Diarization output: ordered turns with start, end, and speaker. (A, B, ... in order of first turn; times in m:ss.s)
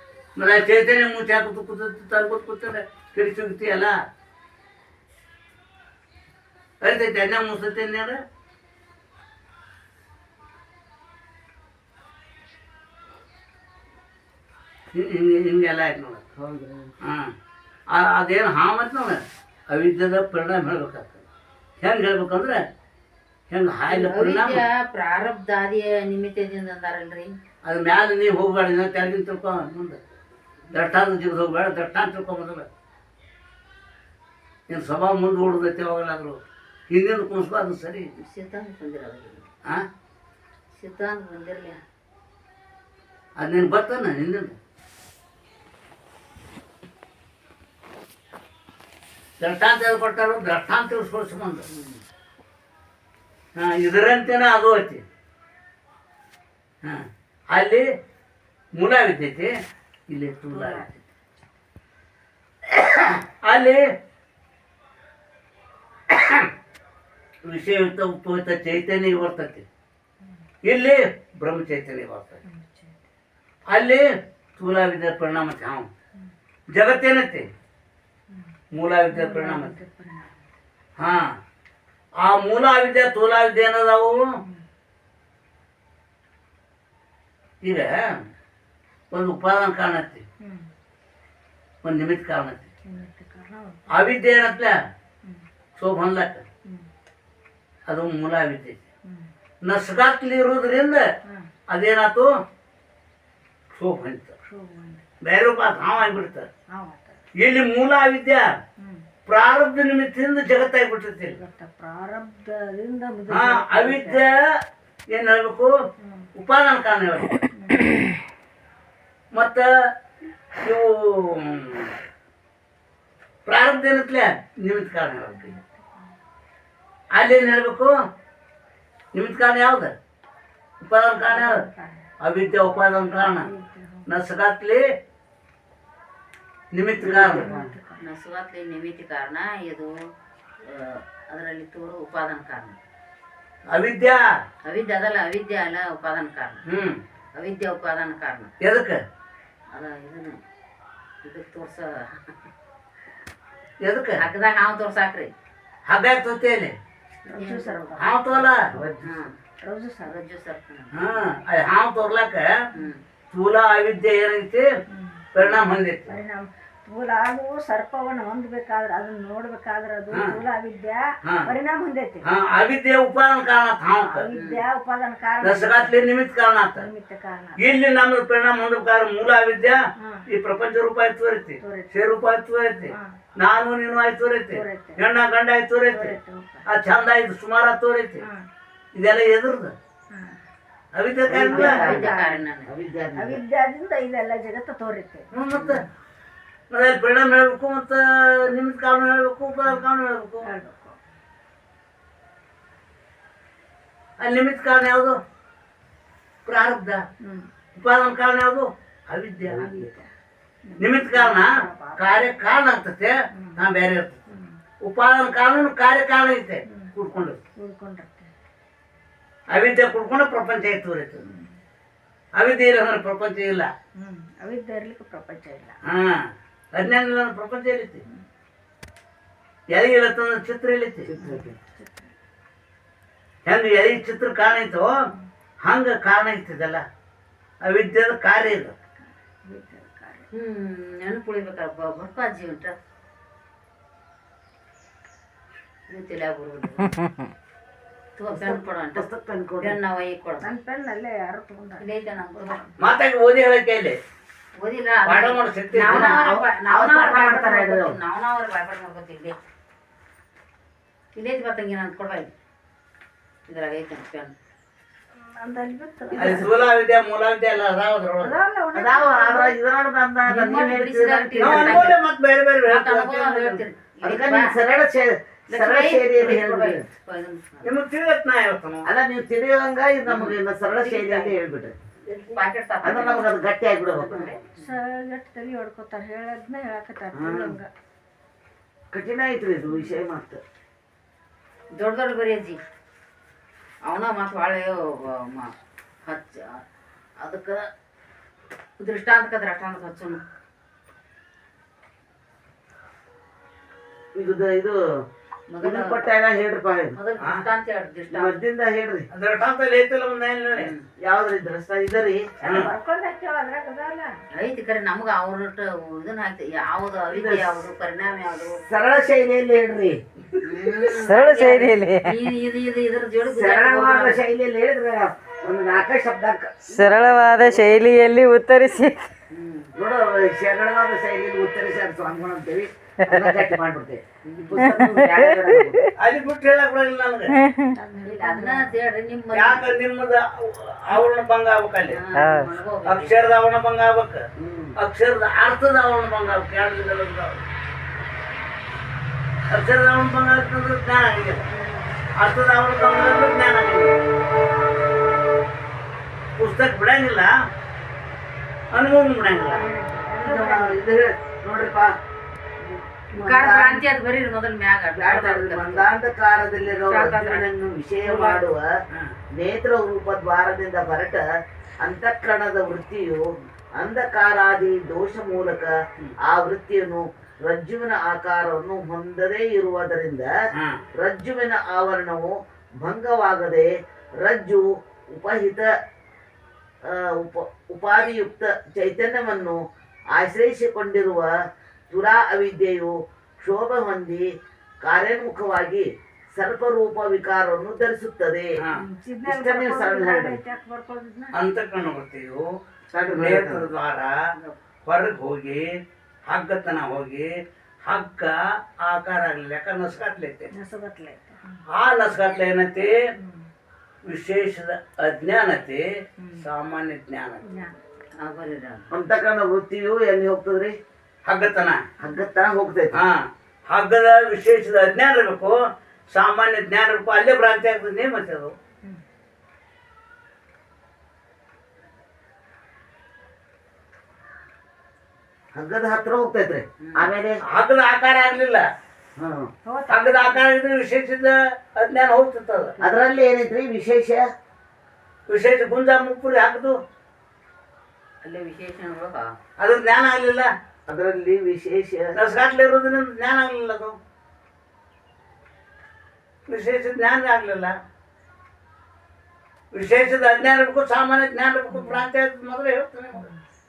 0:00.4-0:04.0 A
0:06.8-0:08.2 A
0:14.9-0:16.2 A
0:16.4-0:16.9 B
0:17.0-0:17.3 A
0:17.9-0:21.2 A
0:21.8-0:22.6 A
0:23.5-0:24.6 A
0:23.9-0:27.3 C
0:27.6-0:30.0 A
0:30.7-0:32.7 A
0:34.7-0:36.4 A
0:36.9-0:38.1 A
0:38.2-0:39.5 C
0:40.8-0:41.8 C
0:43.4-0:44.6 A
0:49.4-0:51.6 A
0:51.7-0:52.0 C
0:53.6-0:55.0 A
0:56.8-0:57.8 A
0:58.7-0:59.5 A
1:00.1-1:00.9 A
1:00.5-1:01.4 D
1:02.7-1:03.8 A
1:06.1-1:06.5 A
1:07.4-1:09.6 A
1:10.6-1:12.4 A
1:12.4-1:13.0 D
1:13.7-1:14.0 A
1:14.6-1:15.9 A
1:16.7-1:17.4 A
1:18.3-1:18.6 D
1:18.7-1:19.8 A
1:19.1-1:20.5 D
1:21.0-1:21.2 A
1:22.2-1:24.2 A
1:27.6-1:28.0 A
1:29.1-1:30.2 A
1:30.4-1:30.7 D
1:31.8-1:32.7 A
1:32.8-1:33.9 D
1:33.9-1:34.8 A
1:35.8-1:36.4 A
1:37.9-1:38.8 A
1:39.0-1:39.3 D
1:39.6-1:41.0 A
1:41.7-1:42.3 A
1:43.7-1:44.3 A
1:44.4-1:45.0 D
1:45.2-1:46.5 A
1:46.7-1:47.3 D
1:47.4-1:48.5 A
1:48.8-1:49.1 D
1:49.3-1:51.4 A
1:51.2-1:54.2 D
1:53.3-1:54.3 A
1:55.1-1:55.7 A
1:56.0-1:56.3 D
1:56.3-1:57.4 A
1:57.5-1:58.1 D
1:59.3-1:59.7 A
2:00.6-2:01.9 A
2:03.4-2:05.5 A
2:05.2-2:06.2 D
2:07.1-2:07.9 A
2:09.1-2:09.9 A
2:10.8-2:11.6 A
2:11.3-2:12.1 D
2:12.2-2:13.5 A
2:13.2-2:14.1 D
2:14.0-2:14.8 A
2:16.7-2:17.5 A
2:17.0-2:17.8 B
2:17.0-2:18.0 D
2:18.0-2:19.9 C
2:20.6-2:22.8 C
2:23.7-2:24.2 A
2:24.6-2:26.6 C
2:26.6-2:27.0 A
2:27.3-2:28.5 C
2:28.6-2:29.0 A
2:29.7-2:30.4 C
2:31.2-2:32.3 C
2:33.8-2:34.2 A
2:34.2-2:35.3 C
2:35.9-2:36.7 A
2:37.2-2:38.9 D
2:37.3-2:37.9 C
2:38.0-2:38.7 A
2:38.7-2:39.3 B
2:39.0-2:39.3 C
2:39.6-2:40.1 D
2:40.0-2:41.3 C
2:40.9-2:42.5 A
2:43.3-2:44.7 A
2:44.9-2:45.3 D
2:45.3-2:46.2 A
2:46.1-2:52.2 D
2:50.1-2:50.4 A
2:51.2-2:51.5 A
2:52.2-2:54.3 A
2:53.9-2:56.0 D
2:54.3-2:54.6 C
2:55.4-2:56.9 A
2:56.8-2:57.6 D
2:57.6-3:06.1 A
3:00.0-3:00.3 D
3:01.6-3:01.9 D
3:02.9-3:03.2 D
3:04.5-3:05.0 D
3:05.9-3:06.7 D
3:06.6-3:08.2 A
3:08.2-3:08.5 D
3:08.9-3:09.7 A
3:10.1-3:10.4 D
3:10.9-3:12.0 A
3:11.3-3:12.1 B
3:11.5-3:12.7 C
3:11.5-3:12.4 D
3:12.7-3:13.4 B
3:13.2-3:15.3 D
3:15.3-3:15.8 A
3:15.5-3:15.8 C
3:16.7-3:20.5 A
3:20.4-3:21.0 D
3:24.2-3:25.2 A
3:26.4-3:27.0 A
3:27.2-3:27.5 D
3:27.7-3:29.7 A
3:29.4-3:29.9 B
3:29.5-3:30.1 D
3:30.6-3:32.6 D
3:30.8-3:34.2 A
3:33.3-3:33.6 D
3:34.3-3:34.6 D
3:34.8-3:37.4 A
3:37.6-3:38.3 D
3:39.5-3:41.2 A
3:41.2-3:41.6 D
3:42.4-3:43.7 A
3:44.0-3:45.8 D
3:45.8-3:48.0 A
3:49.7-3:51.1 A
3:51.0-3:51.6 B
3:51.2-3:52.1 D
3:53.4-3:54.9 A
3:55.6-3:56.8 A
3:57.6-3:58.7 A
3:58.9-4:00.3 D
4:00.3-4:02.7 C
4:05.9-4:07.0 C
4:08.2-4:09.0 C
4:08.3-4:09.8 B
4:09.6-4:10.5 C
4:10.4-4:12.7 D
4:11.8-4:12.6 C
4:12.8-4:14.0 A
4:14.6-4:19.4 C
4:15.0-4:16.2 A
4:15.8-4:18.0 B
4:21.1-4:22.3 C
4:23.5-4:24.3 C
4:25.2-4:26.5 D
4:26.1-4:26.5 B
4:26.2-4:28.4 A
4:28.2-4:29.6 D
4:28.7-4:31.9 B
4:30.3-4:32.0 C
4:31.4-4:33.6 A
4:32.6-4:34.5 C
4:34.0-4:36.8 B
4:35.5-4:37.7 C
4:37.6-4:38.8 A
4:38.8-4:41.7 B
4:40.0-4:41.4 C
4:42.1-4:43.3 C
4:42.8-4:44.4 B
4:43.9-4:44.7 C
4:44.6-4:47.7 D
4:47.1-4:47.6 B
4:48.9-4:50.4 B
4:51.8-4:52.6 C
4:53.9-4:55.5 C
4:56.0-4:56.6 C
4:57.2-4:57.7 C
4:58.8-5:00.2 C
5:04.1-5:04.8 B
5:05.5-5:06.0 C
5:05.6-5:07.0 B
5:07.0-5:08.4 C
5:08.1-5:09.1 B
5:09.1-5:10.7 A
5:10.6-5:10.8 C
5:11.0-5:12.2 B
5:12.4-5:14.1 D
5:12.4-5:12.7 A
5:14.4-5:18.6 C
5:17.1-5:17.6 B
5:18.7-5:20.0 B
5:20.4-5:24.2 C
5:20.9-5:22.2 E
5:23.3-5:27.8 B
5:26.7-5:29.1 E
5:29.3-5:29.7 C
5:29.7-5:35.8 B
5:33.1-5:33.4 E
5:34.2-5:35.8 C
5:34.8-5:35.7 E
5:36.0-5:37.4 A
5:37.6-5:38.8 D
5:38.0-5:39.7 C
5:39.3-5:42.0 A
5:41.9-5:43.2 C
5:42.1-5:42.5 E
5:42.8-5:44.2 A
5:44.4-5:44.8 B
5:44.8-5:47.4 A
5:49.5-5:51.5 A
5:51.5-5:52.0 D
5:52.2-5:53.9 A
5:56.4-5:57.3 A
5:58.7-5:59.6 A
5:59.4-6:00.8 D
6:00.2-6:01.9 B
6:03.1-6:03.8 B
6:03.1-6:05.9 C
6:04.9-6:08.6 B
6:06.6-6:07.5 C
6:09.3-6:11.2 B
6:11.8-6:20.3 B
6:20.5-6:20.8 A
6:20.9-6:23.7 B
6:24.2-6:25.7 B
6:26.8-6:29.6 B
6:30.1-6:31.3 B
6:31.9-6:34.2 B
6:34.8-6:38.5 B
6:38.6-6:38.8 A
6:38.7-6:41.4 D
6:39.2-6:40.4 B
6:41.3-6:42.5 A
6:42.9-6:43.7 B
6:43.2-6:44.1 A
6:44.8-6:47.3 A
6:47.8-6:50.5 A
6:50.5-6:51.6 D
6:51.7-6:53.0 A
6:53.2-6:53.5 D
6:54.0-6:55.8 A
6:56.2-6:56.5 D
6:56.4-6:57.4 A
6:57.4-6:58.0 D
6:58.2-6:58.9 C
6:58.9-7:00.8 B
7:01.2-7:01.8 A
7:02.0-7:03.0 B
7:02.9-7:05.6 A
7:06.1-7:08.5 A
7:15.5-7:17.4 B
7:16.8-7:17.1 C
7:17.4-7:18.6 A
7:19.2-7:19.5 B
7:19.6-7:20.4 D
7:19.9-7:22.7 A
7:22.8-7:24.2 B
7:25.3-7:26.8 A
7:28.2-7:29.3 C
7:29.6-7:30.5 A
7:30.9-7:32.1 B
7:32.2-7:33.9 A
7:36.5-7:37.7 A
7:39.7-7:43.3 A
7:41.7-7:42.0 D